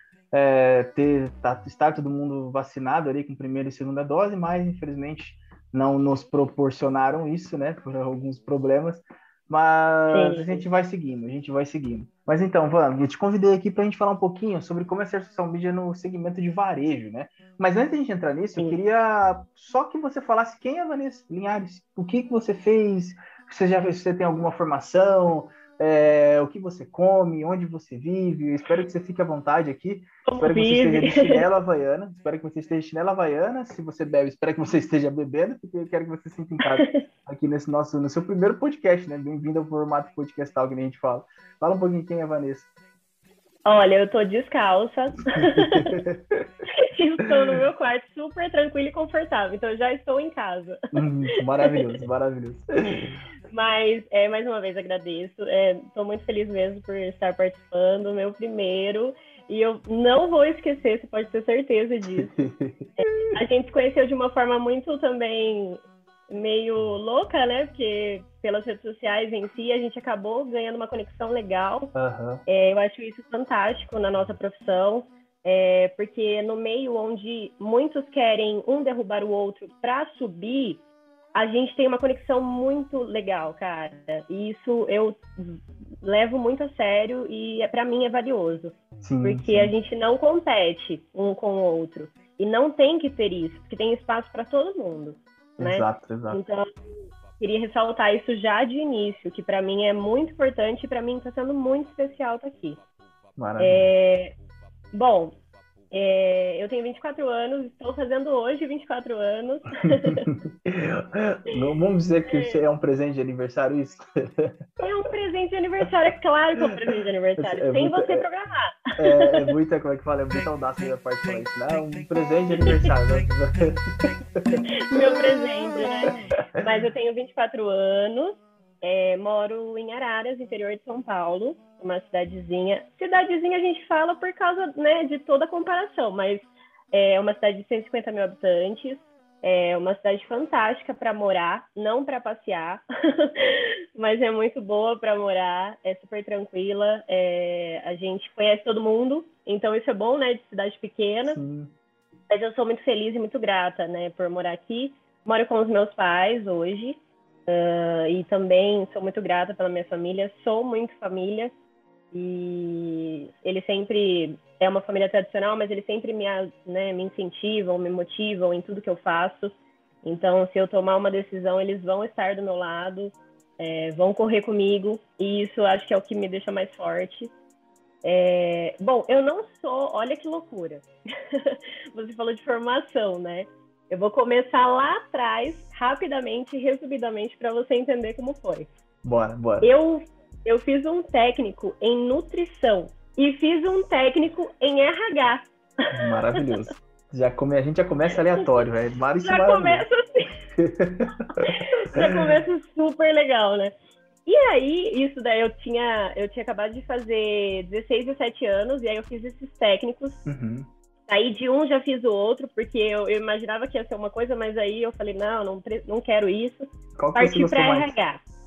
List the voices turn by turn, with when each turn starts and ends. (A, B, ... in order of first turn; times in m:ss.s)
0:00.3-0:42.7 A
0:10.1-0:10.6 B
0:30.3-0:31.4 B
0:36.6-0:37.0 B
0:43.6-0:46.0 B
0:45.3-0:46.4 A
0:46.8-0:50.8 B
0:50.9-0:53.2 A
0:51.6-0:52.0 B
0:53.5-1:02.3 B
1:02.2-1:02.9 A
1:03.0-1:11.9 B
1:12.0-1:12.4 A
1:12.5-1:20.8 B
1:21.4-1:36.7 B
1:29.0-1:29.7 A
1:35.6-1:36.4 A
1:37.4-1:42.8 B
1:43.4-1:43.9 A
1:43.6-1:44.4 B
1:44.9-1:45.4 B
1:45.9-1:50.2 B
1:50.0-1:54.6 A
1:52.3-1:52.6 B
1:54.8-1:59.4 B
1:57.4-1:58.3 A
1:59.0-2:04.6 A
2:04.6-2:31.4 B
2:31.3-2:31.7 A
2:32.3-2:41.5 B
2:42.1-2:57.3 B
2:58.0-3:08.7 B
3:09.0-3:09.7 A
3:09.6-3:16.4 B
3:15.9-3:19.9 A
3:19.2-3:20.3 B
3:20.6-3:21.5 A
3:21.4-3:23.7 B
3:24.3-3:30.2 B
3:30.2-3:30.7 A
3:31.1-3:38.2 B
3:37.0-3:38.0 A